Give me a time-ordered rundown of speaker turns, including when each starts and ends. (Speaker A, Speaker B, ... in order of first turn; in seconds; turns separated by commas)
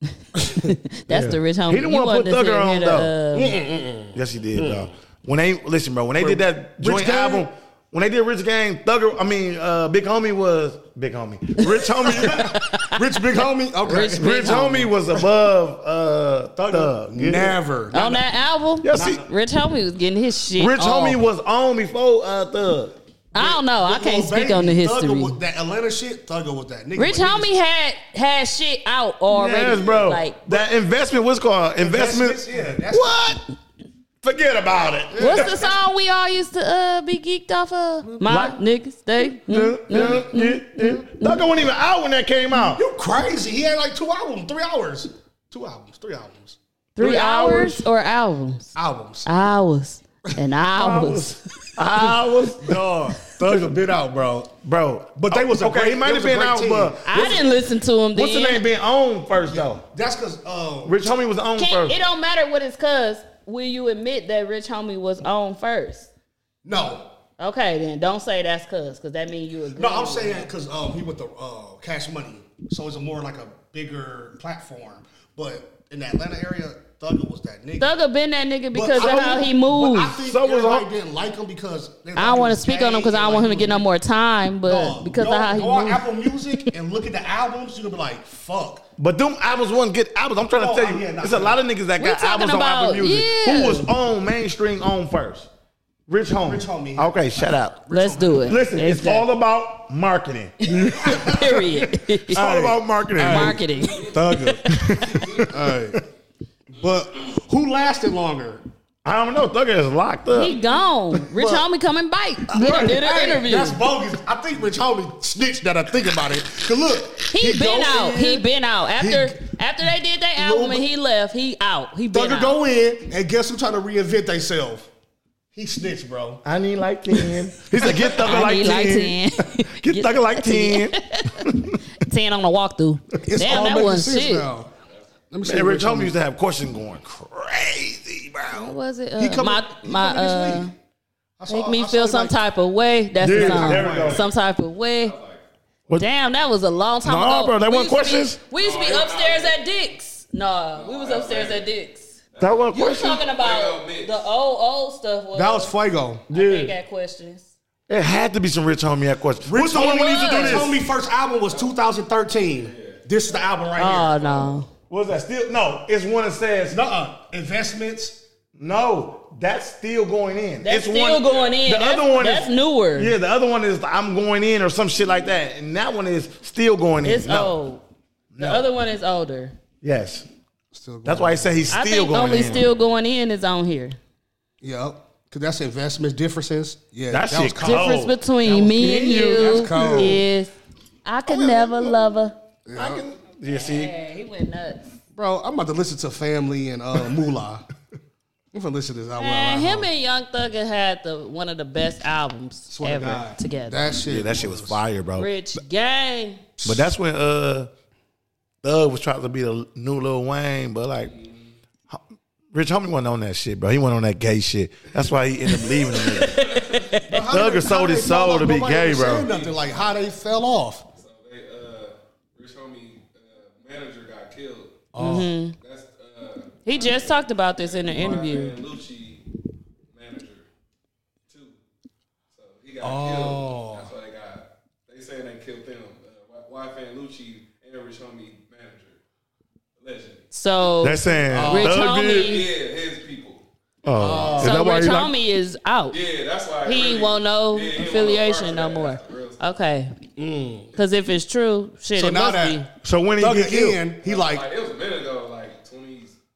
Speaker A: 0.3-3.6, Speaker B: 1.1-3.1, Speaker C: 3.3-4.9, Speaker B: 4.1-12.8, Speaker C: 6.2-7.5, Speaker A: 11.6-13.0, Speaker C: 12.3-14.6, Speaker A: 13.8-14.9, Speaker B: 14.1-17.6, Speaker C: 16.6-18.2, Speaker A: 17.9-21.2, Speaker B: 18.8-19.2, Speaker C: 18.9-19.2, Speaker B: 20.6-23.0, Speaker A: 23.3-25.4, Speaker C: 23.3-27.5, Speaker A: 26.9-30.6, Speaker B: 29.3-33.4, Speaker C: 31.8-33.3, Speaker B: 34.2-35.7, Speaker C: 35.1-35.7, Speaker A: 35.2-41.5, Speaker B: 38.2-38.6, Speaker B: 39.4-42.8, Speaker C: 42.5-46.6, Speaker A: 47.0-48.7, Speaker B: 47.0-47.9, Speaker C: 48.8-49.3, Speaker A: 49.2-51.4, Speaker B: 50.7-53.8, Speaker C: 52.6-54.5, Speaker B: 54.6-57.5, Speaker C: 55.1-57.3, Speaker A: 57.1-58.6, Speaker B: 58.1-59.8, Speaker C: 59.5-61.0, Speaker B: 60.8-62.0, Speaker A: 61.6-66.1, Speaker C: 66.6-67.1, Speaker A: 67.4-70.5, Speaker C: 69.7-77.9, Speaker A: 77.8-80.2, Speaker C: 78.7-83.8, Speaker B: 80.1-80.9, Speaker A: 82.2-86.1, Speaker C: 84.6-88.8, Speaker B: 89.0-95.5, Speaker C: 90.5-91.6, Speaker A: 92.0-93.9, Speaker B: 96.1-97.8, Speaker C: 96.4-98.6, Speaker A: 97.9-99.2, Speaker B: 98.5-101.6, Speaker A: 100.7-102.5, Speaker C: 101.1-101.7, Speaker B: 102.3-103.6, Speaker C: 102.3-104.6, Speaker A: 103.2-105.2, Speaker D: 103.9-104.3, Speaker B: 104.7-105.5, Speaker C: 105.3-106.0, Speaker C: 106.7-108.6, Speaker B: 109.0-110.6, Speaker A: 110.3-113.8, Speaker B: 111.1-111.6, Speaker C: 112.5-118.4, Speaker B: 112.5-112.9, Speaker A: 117.3-122.5, Speaker C: 119.0-119.4, Speaker C: 120.4-120.8, Speaker C: 122.1-124.9, Speaker C: 125.5-126.4, Speaker B: 126.4-131.8, Speaker A: 128.0-131.5, Speaker A: 132.0-134.5, Speaker C: 133.2-134.7, Speaker C: 135.3-136.1, Speaker B: 135.4-138.7, Speaker A: 138.5-140.7, Speaker C: 139.2-140.7, Speaker C: 141.4-142.3, Speaker A: 141.5-145.2, Speaker B: 143.2-144.2, Speaker C: 143.2-144.2, Speaker D: 143.9-144.3, Speaker D: 145.0-145.4, Speaker A: 145.9-152.1, Speaker B: 147.0-148.4, Speaker D: 148.5-149.6, Speaker D: 150.7-151.7, Speaker D: 152.3-154.2, Speaker B: 152.4-153.2, Speaker A: 152.7-155.7, Speaker C: 155.3-156.2, Speaker B: 156.3-156.7, Speaker A: 156.3-157.5, Speaker B: 157.9-160.8, Speaker C: 159.4-164.5, Speaker A: 160.2-160.5, Speaker D: 162.6-163.0, Speaker A: 163.8-164.7, Speaker B: 164.9-166.8, Speaker C: 166.7-168.2, Speaker B: 168.6-177.6, Speaker A: 170.6-173.1, Speaker D: 171.2-171.5, Speaker A: 177.0-177.8, Speaker B: 178.3-178.7, Speaker A: 178.4-179.5, Speaker B: 179.8-180.3, Speaker C: 180.7-181.7, Speaker B: 181.0-182.7, Speaker A: 181.7-184.0, Speaker C: 184.6-190.2, Speaker B: 187.1-190.2, Speaker A: 187.6-190.5, Speaker A: 191.0-192.3, Speaker C: 192.7-193.0, Speaker B: 192.7-193.9, Speaker A: 193.5-194.9, Speaker C: 195.1-197.7, Speaker C: 198.5-199.9, Speaker A: 199.2-203.8, Speaker C: 202.7-204.8, Speaker B: 204.1-205.3, Speaker A: 205.2-206.4, Speaker C: 206.6-206.9, Speaker B: 206.6-207.7, Speaker B: 208.6-211.1, Speaker D: 211.0-211.5, Speaker B: 212.5-216.4, Speaker A: 215.5-217.2, Speaker D: 216.3-217.0, Speaker C: 217.1-220.8, Speaker B: 217.3-219.3, Speaker D: 218.8-220.2, Speaker D: 220.9-224.8, Speaker C: 224.9-225.3, Speaker A: 225.0-225.6, Speaker D: 225.6-229.2, Speaker A: 226.7-228.6, Speaker D: 229.9-230.5, Speaker D: 231.3-231.6, Speaker D: 232.3-239.0, Speaker C: 232.8-233.9, Speaker D: 239.8-240.8, Speaker A: 240.3-242.5, Speaker B: 240.8-242.4, Speaker C: 241.3-241.8, Speaker D: 242.0-243.4, Speaker B: 243.8-245.1, Speaker C: 244.0-244.6, Speaker D: 244.0-244.4, Speaker A: 244.4-246.0, Speaker D: 245.9-249.4, Speaker A: 246.6-249.9, Speaker C: 250.2-250.7, Speaker A: 250.7-252.7, Speaker C: 251.9-252.6, Speaker B: 252.8-253.8, Speaker C: 253.2-254.5, Speaker D: 254.0-256.1